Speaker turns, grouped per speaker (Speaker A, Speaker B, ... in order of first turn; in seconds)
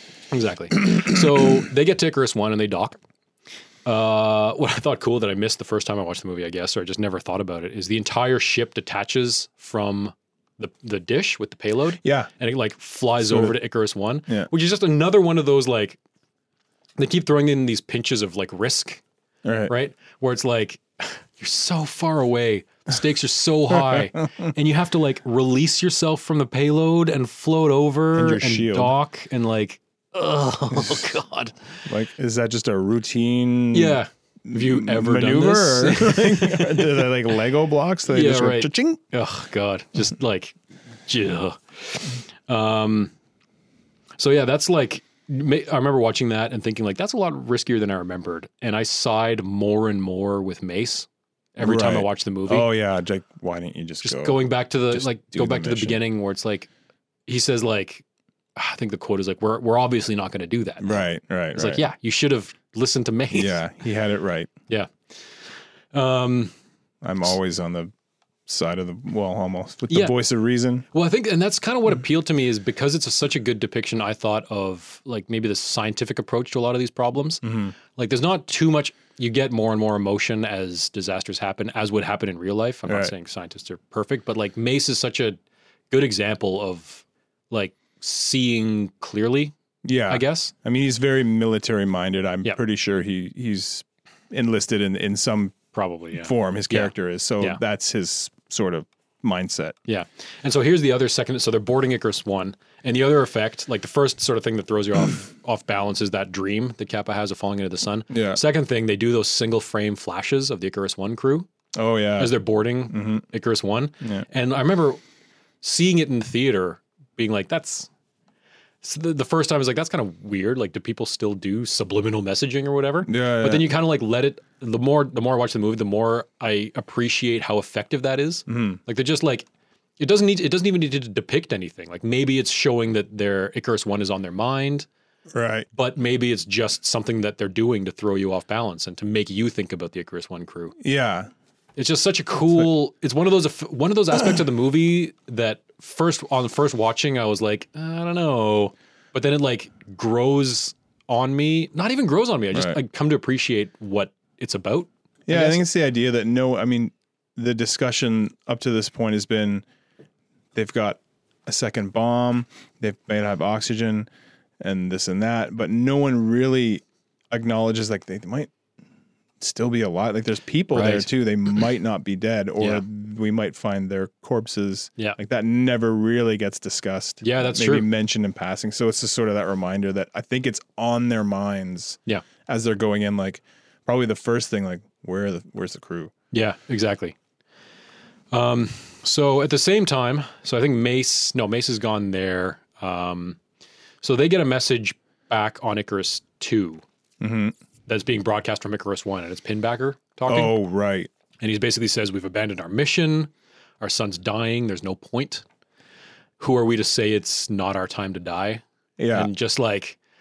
Speaker A: 0.3-3.0, 3.8-16.0, 17.0-19.0, 19.7-31.5, 33.7-37.1, 38.1-43.1, 44.2-52.7, 54.0-56.7, 57.3-58.0, 58.5-63.6, 65.9-66.5, 69.9-70.1, 70.9-85.4, 85.9-89.5, 90.1-90.5, 95.7-97.6, 99.9-111.5, 112.2-115.0, 115.6-117.9, 118.8-129.4, 130.0-134.9, 135.7-140.8, 141.8-155.6, 170.7-171.1, 177.2-177.9, 186.3-187.2, 188.3-193.4, 194.0-196.8, 197.9-200.6, 201.4-205.4, 206.4-210.0
Speaker B: 0.9-1.2, 12.0-12.3, 13.2-13.5, 19.4-19.7, 23.7-24.5, 28.1-28.9, 30.7-31.1, 31.9-39.0, 51.6-56.0, 60.8-61.8, 63.3-64.5, 67.0-67.9, 68.5-70.8, 77.4-77.7, 82.9-83.1, 89.8-95.6, 96.2-99.8, 108.1-108.4, 111.7-112.4, 112.9-113.2, 123.0-123.7, 128.5-128.8, 135.3-135.7, 140.8-141.3, 152.5-152.8, 155.3-159.6, 160.5-164.1, 164.6-168.5, 169.4-186.1, 197.2-197.5, 200.3-201.1, 209.0-209.3